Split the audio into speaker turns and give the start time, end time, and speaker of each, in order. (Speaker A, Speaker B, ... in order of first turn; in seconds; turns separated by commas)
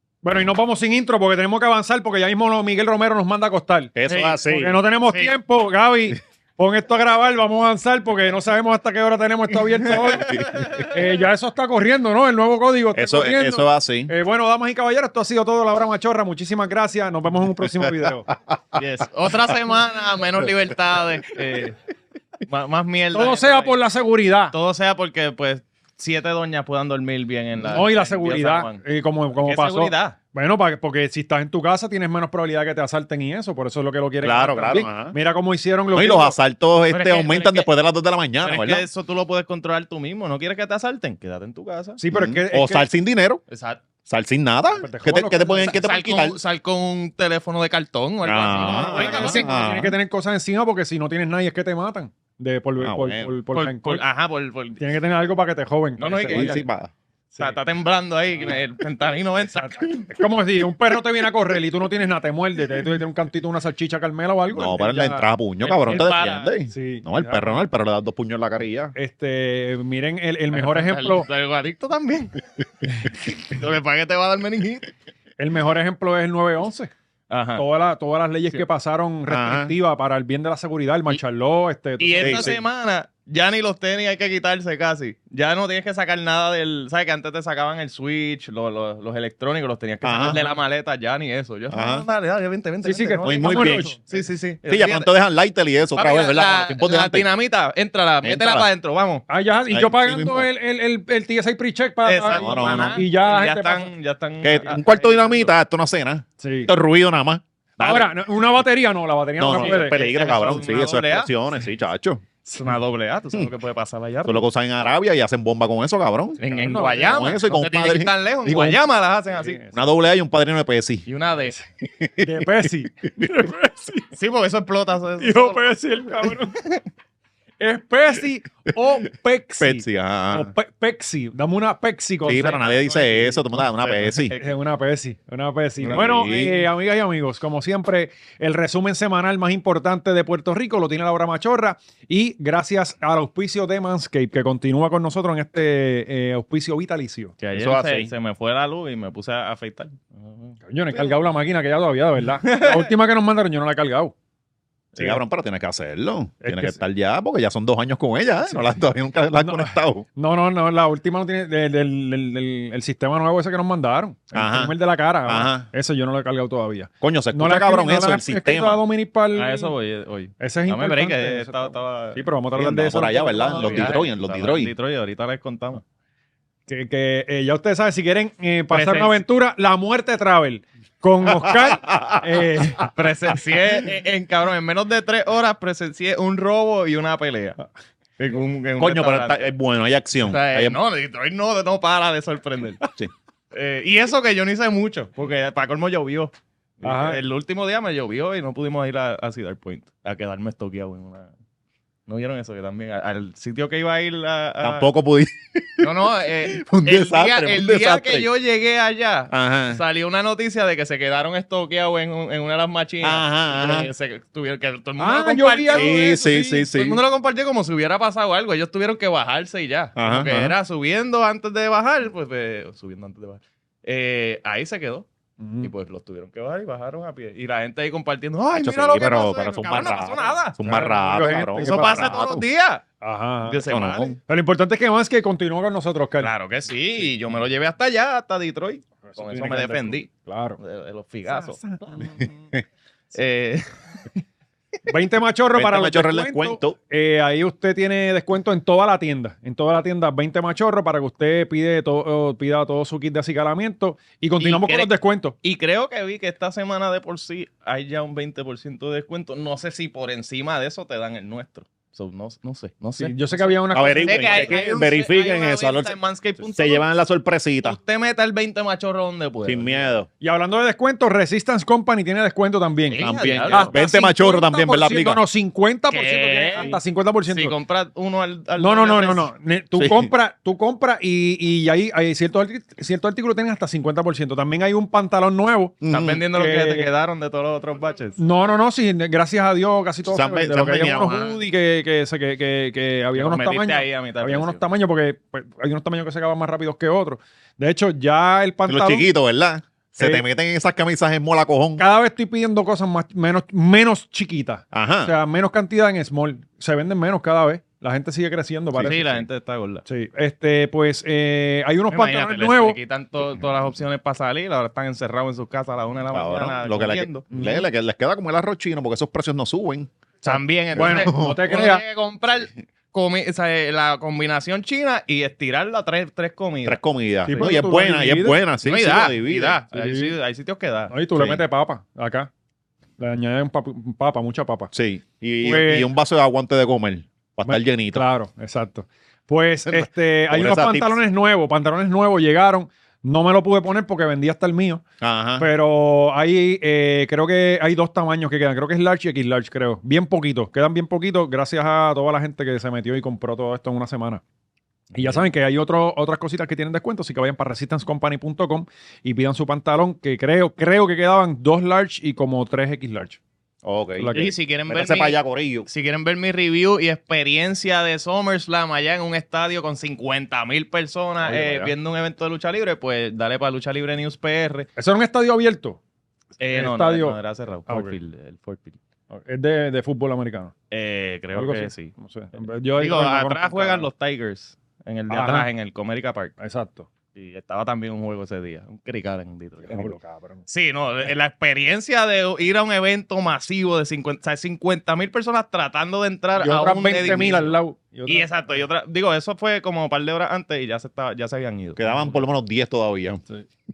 Speaker A: 0.2-3.9, Speaker B: 3.9-4.8, Speaker C: 4.1-4.4, Speaker A: 4.5-18.3, Speaker C: 9.9-10.9, Speaker B: 12.9-14.1, Speaker B: 17.6-18.8, Speaker C: 18.7-21.8, Speaker C: 22.4-23.8, Speaker A: 23.1-24.5, Speaker C: 24.5-28.8, Speaker A: 27.6-36.4, Speaker C: 29.4-30.2, Speaker B: 34.2-35.1, Speaker B: 35.9-38.9, Speaker C: 36.9-37.7, Speaker C: 38.4-42.0, Speaker A: 42.0-42.9, Speaker B: 42.1-43.4, Speaker C: 43.5-43.8, Speaker B: 44.1-46.4, Speaker A: 44.8-45.8, Speaker C: 45.6-49.5, Speaker B: 48.2-50.0, Speaker A: 48.7-54.0, Speaker B: 52.8-53.3, Speaker C: 53.5-54.8, Speaker A: 54.8-56.6, Speaker C: 56.0-56.6, Speaker B: 56.3-56.9, Speaker C: 57.4-60.0, Speaker A: 59.5-65.2, Speaker B: 64.5-68.9, Speaker C: 65.6-66.5, Speaker A: 66.7-67.6, Speaker A: 68.9-71.3, Speaker C: 70.5-72.4, Speaker C: 73.0-74.9, Speaker A: 75.4-76.9, Speaker C: 77.3-77.6, Speaker A: 77.6-82.5, Speaker B: 79.3-79.7, Speaker C: 82.0-95.1, Speaker B: 82.2-82.6, Speaker B: 90.0-90.4, Speaker B: 91.7-92.0, Speaker A: 92.8-94.0, Speaker B: 93.2-94.0, Speaker B: 94.7-97.3, Speaker C: 95.9-99.2, Speaker B: 98.2-98.7, Speaker A: 99.3-103.9, Speaker B: 99.7-100.5, Speaker C: 102.0-105.5, Speaker B: 102.3-103.0, Speaker B: 104.4-108.1, Speaker A: 106.4-106.7, Speaker A: 107.8-110.0, Speaker B: 109.4-112.2, Speaker C: 109.5-111.3, Speaker C: 112.5-114.4, Speaker B: 114.2-118.8, Speaker C: 116.4-119.6, Speaker A: 116.5-117.3, Speaker A: 119.4-119.8, Speaker B: 119.7-121.1, Speaker C: 121.0-121.6, Speaker B: 121.8-123.3, Speaker A: 122.2-124.1, Speaker C: 124.1-126.8, Speaker A: 125.2-126.6, Speaker A: 127.6-133.4, Speaker B: 129.6-130.5, Speaker C: 132.2-134.5, Speaker B: 132.2-134.3, Speaker A: 134.3-147.3, Speaker B: 135.8-136.6, Speaker C: 147.4-151.1, Speaker B: 147.5-148.1, Speaker A: 150.7-154.1, Speaker C: 152.4-152.9, Speaker B: 154.9-160.0, Speaker A: 156.4-156.8, Speaker A: 159.3-169.7, Speaker B: 164.3-164.7, Speaker B: 165.2-165.7, Speaker B: 167.0-168.8, Speaker C: 169.3-172.2, Speaker A: 170.4-174.0, Speaker B: 172.5-174.7, Speaker C: 172.9-175.8, Speaker A: 176.7-182.8, Speaker C: 178.7-179.2, Speaker B: 181.3-182.4, Speaker C: 182.9-187.6, Speaker C: 188.2-189.5, Speaker B: 188.8-190.8, Speaker C: 190.2-192.8, Speaker C: 193.5-201.3, Speaker A: 196.8-197.2, Speaker C: 202.1-204.9, Speaker B: 204.6-205.9, Speaker C: 205.8-225.1, Speaker B: 206.4-208.3, Speaker B: 209.3-209.8, Speaker B: 213.0-213.9, Speaker A: 215.0-216.6, Speaker B: 215.7-217.0, Speaker B: 219.9-220.6, Speaker A: 225.4-225.7, Speaker C: 225.6-230.7, Speaker B: 228.5-232.4, Speaker A: 230.7-232.2, Speaker C: 231.6-232.8, Speaker A: 233.0-233.6, Speaker C: 233.4-234.1, Speaker B: 233.7-234.2, Speaker A: 234.3-236.3, Speaker C: 236.2-241.6, Speaker A: 239.1-240.6, Speaker A: 241.3-242.3, Speaker B: 242.2-242.6, Speaker C: 243.1-243.7, Speaker A: 244.8-255.3, Speaker B: 245.5-246.8, Speaker C: 254.4-254.9, Speaker C: 255.4-266.8, Speaker A: 263.0-264.6, Speaker B: 263.7-267.8, Speaker C: 267.6-269.9, Speaker B: 269.4-270.1, Speaker A: 270.2-277.5, Speaker C: 272.9-273.7, Speaker B: 273.0-275.2, Speaker C: 275.9-276.8, Speaker C: 277.3-279.3, Speaker A: 278.6-285.8, Speaker B: 279.8-280.1, Speaker B: 285.8-286.2, Speaker C: 285.9-288.2, Speaker A: 286.3-286.9, Speaker A: 288.2-299.1, Speaker B: 290.1-291.4, Speaker C: 293.1-294.6, Speaker B: 298.7-301.8, Speaker A: 299.9-300.2, Speaker A: 301.8-309.2, Speaker B: 304.7-305.1, Speaker B: 308.7-309.2, Speaker C: 308.8-309.8, Speaker A: 309.9-312.8, Speaker C: 311.9-317.3, Speaker B: 316.1-319.9, Speaker A: 317.3-317.6, Speaker A: 320.2-321.8, Speaker C: 320.2-327.5, Speaker B: 320.7-321.4, Speaker B: 326.6-329.6, Speaker A: 327.3-328.4, Speaker C: 328.6-330.9, Speaker A: 329.7-330.1, Speaker A: 330.9-332.3, Speaker B: 331.1-331.4, Speaker A: 333.0-334.7, Speaker B: 334.7-338.0, Speaker A: 335.4-335.9, Speaker A: 337.4-344.8, Speaker B: 339.7-341.0, Speaker B: 345.0-345.5, Speaker A: 345.4-354.2, Speaker B: 354.9-355.2, Speaker A: 354.9-363.2, Speaker B: 363.6-364.1, Speaker A: 364.0-364.3, Speaker C: 364.1-374.7, Speaker B: 364.7-365.7, Speaker B: 371.3-371.7, Speaker A: 371.4-371.7, Speaker A: 374.8-375.8, Speaker C: 376.4-378.8, Speaker A: 376.5-377.9, Speaker A: 379.1-380.5, Speaker C: 380.7-386.3, Speaker A: 381.3-383.9, Speaker A: 385.1-385.5, Speaker A: 386.4-386.9, Speaker C: 387.1-389.9, Speaker A: 389.6-390.4, Speaker C: 390.5-397.5, Speaker A: 396.4-398.3, Speaker C: 398.1-401.9, Speaker B: 401.8-403.2